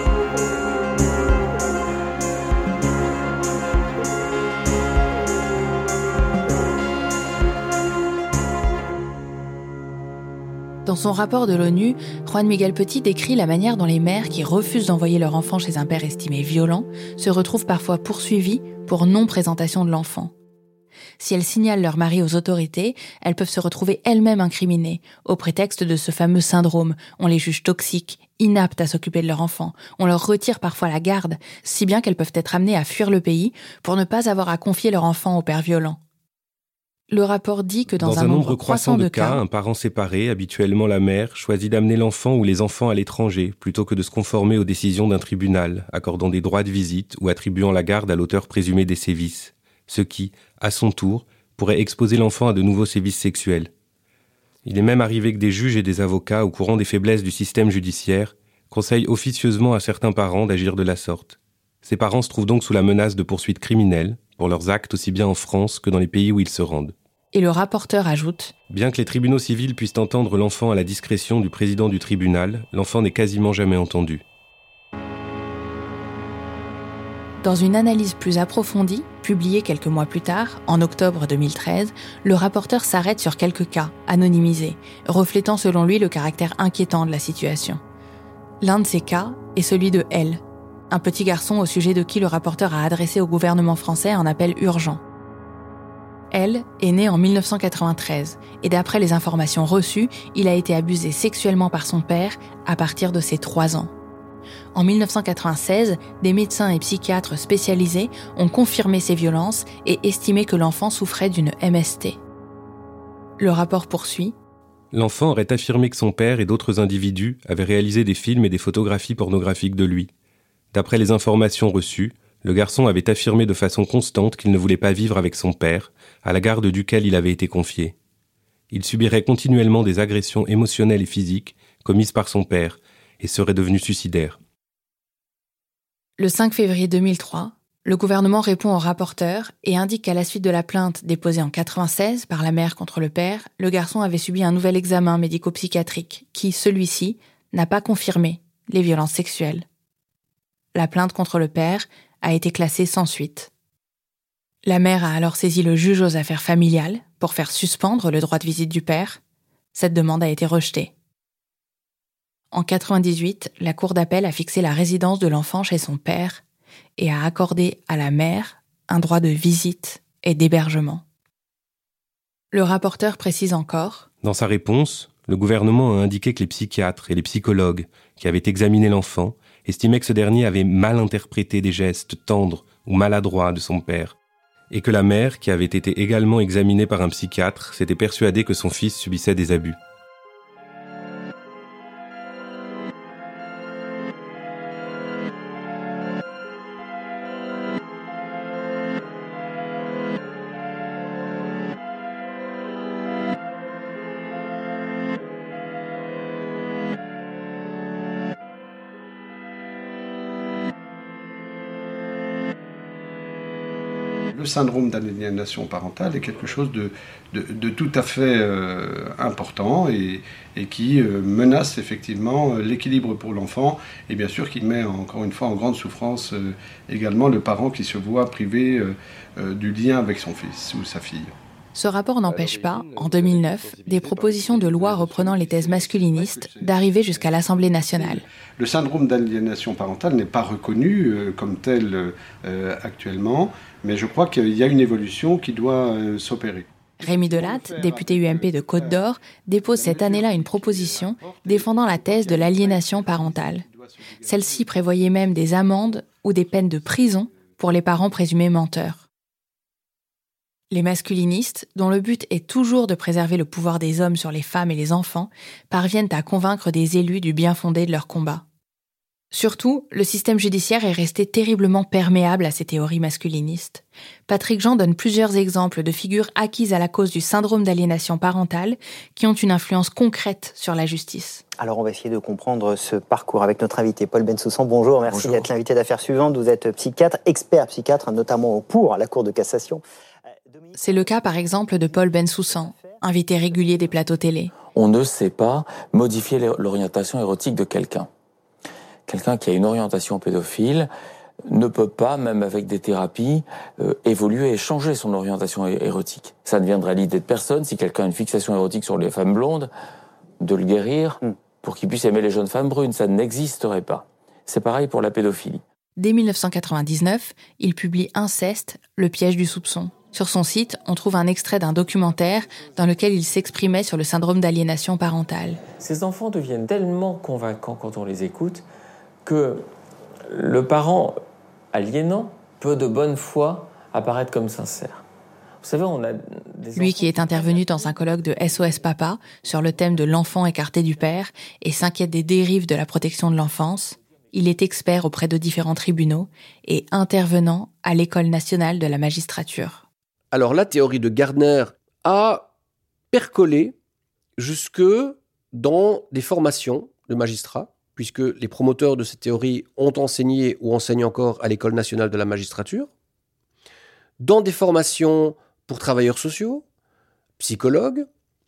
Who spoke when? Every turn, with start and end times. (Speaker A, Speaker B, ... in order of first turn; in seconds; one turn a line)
Speaker A: 10.8-20.3
Speaker A: 21.2-36.0
Speaker A: 37.1-39.4
Speaker B: 38.0-53.7
Speaker B: 54.6-66.9
Speaker A: 67.3-68.5
Speaker B: 68.7-74.2
Speaker A: 77.4-87.8
Speaker A: 88.6-95.0
Speaker A: 96.3-103.9
Speaker A: 104.7-112.2
Speaker A: 113.4-114.3
Speaker B: 114.9-120.1
Speaker B: 120.7-127.9
Speaker B: 128.7-134.4
Speaker A: 136.2-149.6
Speaker A: 150.7-153.5
Speaker A: 154.6-159.2
Speaker A: 159.7-160.9
Speaker A: 162.5-166.4
Speaker A: 167.0-171.0
Speaker A: 172.5-174.1
Speaker B: 174.2-184.2
Speaker B: 184.7-189.8
Speaker C: 214.3-231.3
Speaker A: 231.7-238.2
Speaker C: 232.3-249.1
Speaker A: 247.0-253.6
Speaker C: 249.6-255.2
Speaker A: 254.2-259.0
Speaker A: 260.7-268.4
Speaker A: 269.3-281.4
Speaker D: 281.6-289.8
Speaker E: 285.1-285.5
Speaker A: 290.8-294.5
Speaker E: 294.6-298.1
Speaker E: 299.1-300.9
Speaker E: 301.5-309.7
Speaker E: 310.4-315.6
Speaker A: 316.0-325.6
Speaker E: 325.7-328.6
Speaker E: 329.2-329.7
Speaker E: 330.3-331.2
Speaker E: 331.7-335.0
Speaker E: 335.6-337.5
Speaker A: 336.7-349.8
Speaker F: 350.3-352.5
Speaker F: 353.1-353.7
Speaker F: 354.4-362.9
Speaker F: 364.2-366.6
Speaker F: 367.4-368.1